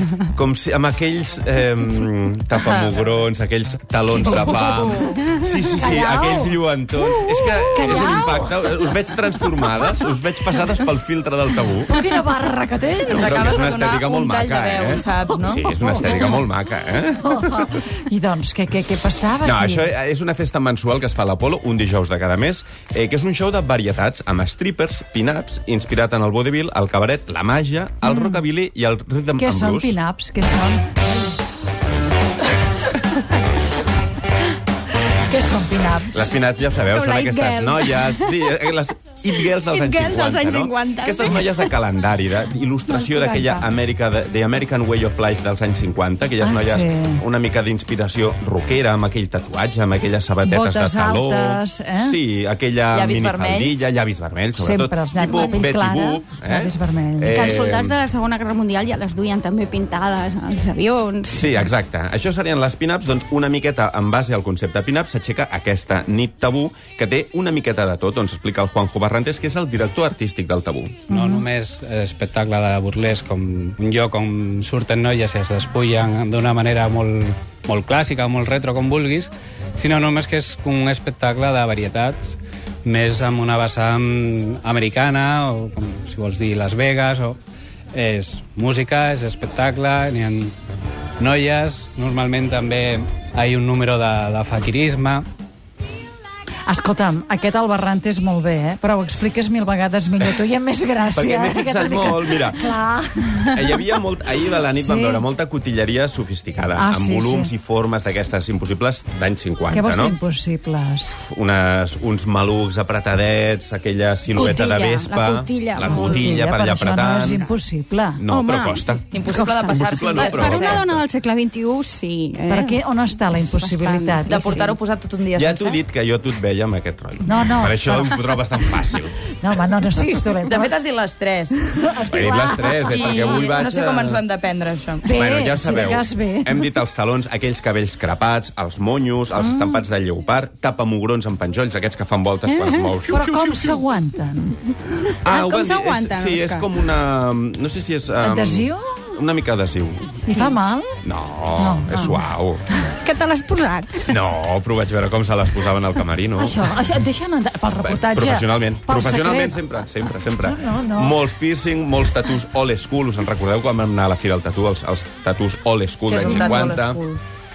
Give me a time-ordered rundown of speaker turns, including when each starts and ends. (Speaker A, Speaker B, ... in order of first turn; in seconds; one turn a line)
Speaker A: 0.3-12.0
Speaker B: 2.6-3.3
Speaker C: 4.2-5.2
Speaker B: 4.4-5.1
Speaker C: 5.7-6.6
Speaker C: 7.4-8.7
Speaker C: 11.9-13.7
Speaker B: 13.1-15.7
Speaker A: 13.1-17.8
Speaker C: 15.6-16.4
Speaker C: 17.2-19.9
Speaker A: 19.4-30.0
Speaker C: 28.0-28.4
Speaker C: 29.4-31.0
Speaker C: 35.3-36.4
Speaker A: 36.1-58.0
Speaker D: 36.9-38.5
Speaker D: 39.5-41.7
Speaker C: 43.1-43.6
Speaker C: 46.4-47.2
Speaker C: 50.4-52.2
Speaker B: 52.9-53.9
Speaker C: 54.6-57.4
Speaker D: 55.2-55.6
Speaker D: 57.3-61.5
Speaker A: 61.3-71.0
Speaker C: 71.1-71.5
Speaker E: 71.1-87.4
Speaker E: 87.9-90.5
Speaker E: 91.2-95.2
Speaker C: 96.7-103.8
Speaker A: 100.2-100.5
Speaker A: 101.1-102.8
Speaker A: 103.5-110.2
Speaker C: 104.8-105.3
Speaker C: 106.8-107.5
Speaker C: 109.7-111.1
Speaker A: 111.2-117.5
Speaker D: 114.3-116.3
Speaker C: 115.8-118.3
Speaker A: 118.2-121.0
Speaker D: 118.3-124.7
Speaker B: 119.1-120.9
Speaker C: 122.5-124.8
Speaker B: 124.2-125.8
Speaker A: 125.3-129.2
Speaker C: 127.2-128.2
Speaker C: 129.4-130.8
Speaker B: 130.4-135.1
Speaker C: 131.7-133.6
Speaker A: 132.1-134.2
Speaker C: 135.0-136.7
Speaker A: 135.1-143.8
Speaker C: 139.4-139.8
Speaker D: 142.5-142.9
Speaker C: 143.1-144.6
Speaker A: 145.2-150.1
Speaker D: 145.2-146.7
Speaker C: 148.2-148.9
Speaker C: 150.3-150.9
Speaker A: 151.0-152.6
Speaker C: 151.6-152.9
Speaker D: 153.0-154.2
Speaker A: 154.1-156.8
Speaker C: 156.4-159.6
Speaker A: 157.8-167.0
Speaker C: 160.4-161.2
Speaker B: 166.1-167.2
Speaker C: 166.2-166.5